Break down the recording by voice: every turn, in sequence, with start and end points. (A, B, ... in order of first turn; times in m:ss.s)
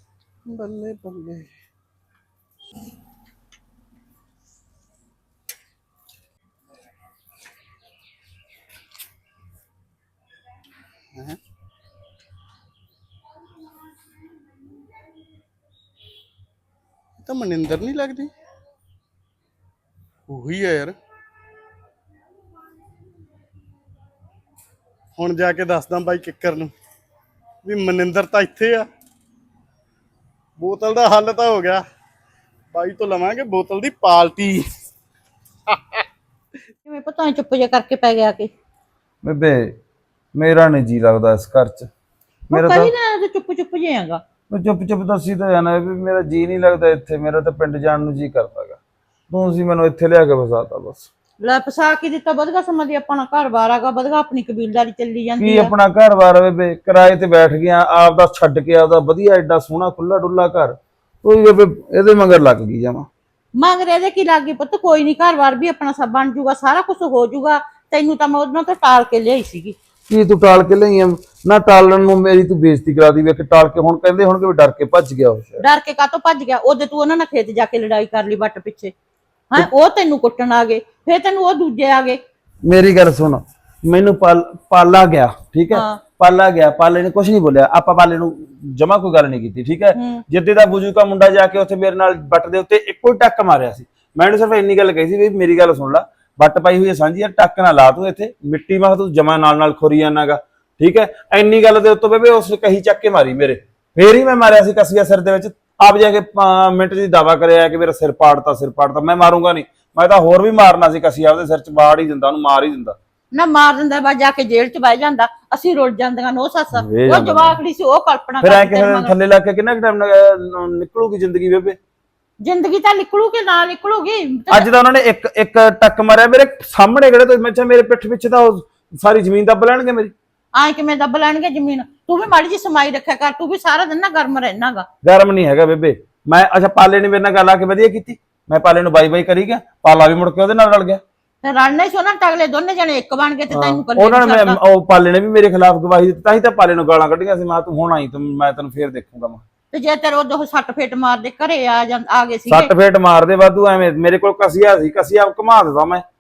0:00.5-0:01.5 A
0:17.2-0:18.3 A
0:20.3-0:21.0 A
0:25.2-0:26.7 A
0:27.6-0:28.9 A
0:30.6-0:31.8 A
0:32.7-0:34.7 A
0:36.8-0:38.5 B
0:39.2-0:39.6 C
0:40.3-0:41.9 C
0:42.5-0:42.9 C
0:42.5-0:44.2 B
0:44.5-0:48.8 C
0:49.3-0:51.1 C
0:51.4-0:55.7 B
0:55.4-1:03.1 C
1:03.6-1:09.8 B
1:10.1-1:15.6 C
1:15.6-1:18.9 B
1:19.5-1:22.2 B
1:22.6-1:53.0 C
1:25.7-1:26.0 B
1:30.0-1:30.2 B
1:53.3-1:59.1 B
1:56.8-1:57.6 C
1:58.4-2:01.8 C
2:02.4-2:04.7 B
2:04.5-2:10.1 C
2:10.6-2:14.9 B
2:15.0-2:21.0 C
2:21.4-2:24.6 B
2:23.5-2:29.4 C
2:29.7-2:32.7 B
2:32.5-2:36.0 C